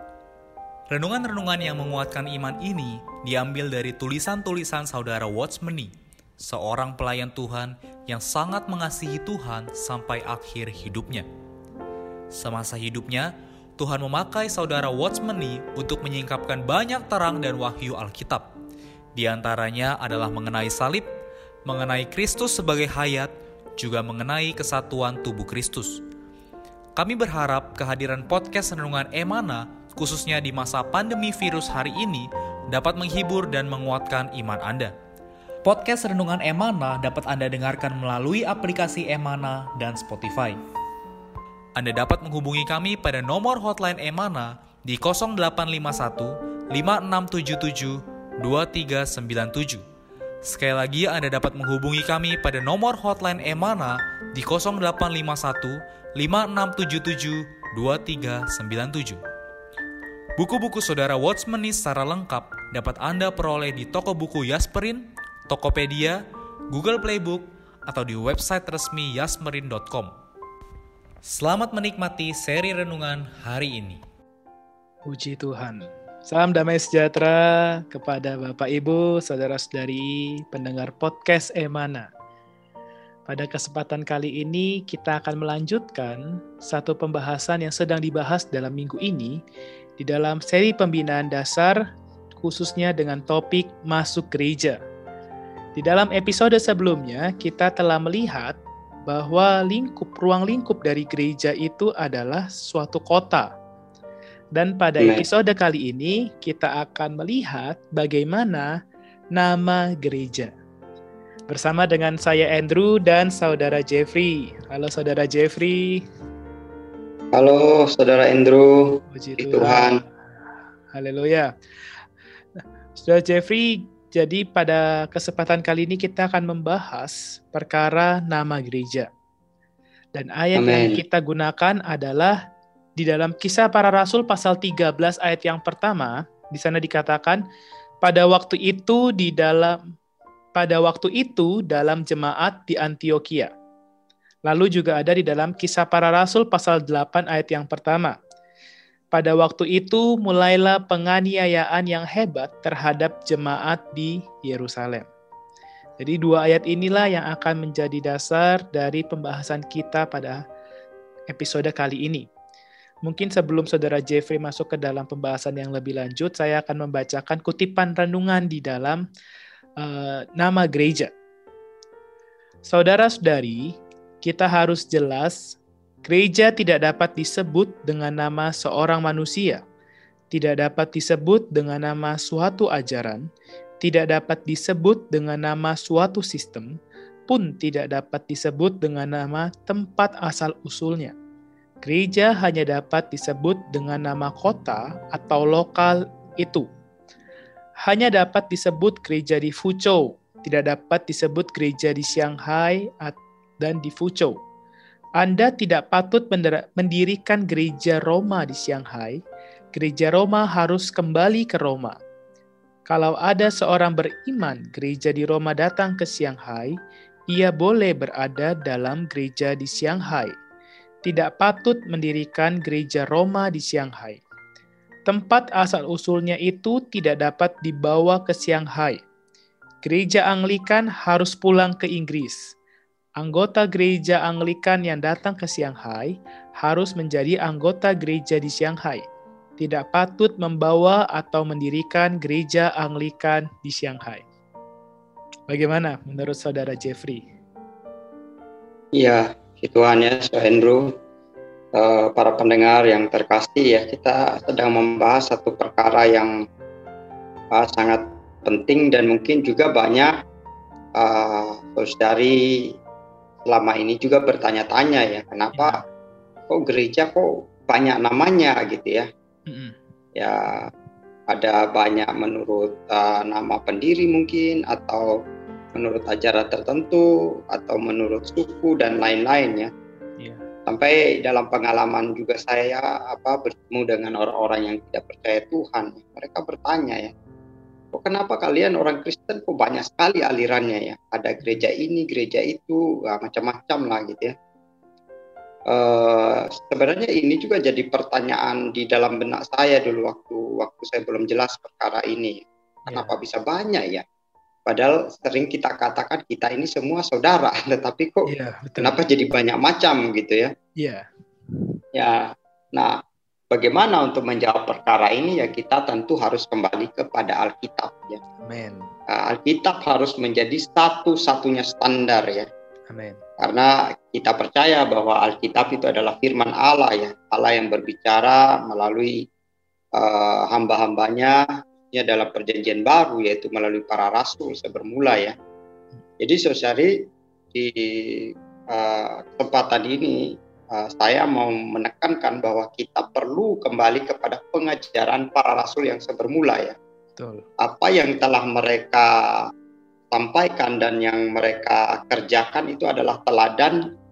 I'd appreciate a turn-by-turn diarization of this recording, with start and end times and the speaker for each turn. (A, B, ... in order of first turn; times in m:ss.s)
0:00.9-0:11.3 A
0:12.3-0:18.5 A
0:19.1-0:21.1 A
0:21.6-0:26.0 A
0:27.0-0:34.9 A
0:35.6-0:40.6 A
0:41.8-0:49.8 A
0:50.4-0:59.2 A
1:00.4-1:06.2 A
1:06.7-1:10.1 A
1:11.3-1:14.0 A
1:15.1-1:22.1 B
1:23.3-1:29.4 B
1:30.0-1:31.8 B
1:32.4-1:34.8 B
1:35.8-1:43.5 B
1:44.5-1:48.7 B
1:45.0-1:45.2 C
1:49.3-1:50.5 B
1:51.5-1:56.0 B
1:57.3-2:00.0 C
1:59.1-2:00.1 B
2:00.9-2:01.5 B
2:02.6-2:09.1 B
2:10.1-2:12.4 B
2:10.5-2:11.0 C
2:13.0-2:17.4 B
2:18.0-2:19.8 B
2:20.6-2:23.5 B
2:24.5-2:28.2 B
2:29.1-2:35.1 B
2:36.0-2:40.4 B
2:41.3-2:42.3 B
2:43.0-2:49.0 B
2:49.8-2:51.1 B
2:52.6-2:59.6 B
3:00.3-3:03.2 B
3:03.8-3:06.8 B
3:07.3-3:11.1 B
3:11.8-3:16.6 B
3:17.8-3:24.4 B
3:25.2-3:29.2 B
3:29.7-3:32.0 B
3:32.9-3:36.7 B
3:37.3-3:40.3 B
3:41.0-3:44.2 B
3:45.1-3:49.0 B
3:49.8-3:52.5 B
3:53.2-3:59.0 B
3:59.6-4:04.2 B
4:05.5-4:07.2 B
4:09.0-4:10.9 C
4:11.7-4:16.3 C
4:17.5-4:20.1 C
4:21.0-4:22.7 C
4:23.4-4:25.8 C
4:25.5-4:25.8 B
4:26.5-4:29.0 C
4:29.5-4:29.7 B
4:30.2-4:30.7 C
4:31.3-4:35.1 C
4:35.7-4:39.7 C
4:40.7-4:47.1 C
4:47.9-4:54.3 C
4:51.4-4:51.6 B
4:55.7-5:04.0 C
5:02.9-5:03.1 B
5:04.6-5:08.2 C
5:08.3-5:09.0 B
5:08.8-5:10.5 C
5:10.8-5:11.0 B
5:11.9-5:13.0 C
5:13.5-5:18.2 C
5:18.4-5:18.8 B
5:19.1-5:22.5 C
5:22.9-5:23.2 B
5:23.4-5:29.1 C
5:30.0-5:35.3 C
5:36.2-5:36.9 C
5:37.5-5:40.2 C
5:40.7-5:46.7 C
5:47.2-5:47.4 B
5:47.6-5:49.4 C
5:50.1-5:53.8 C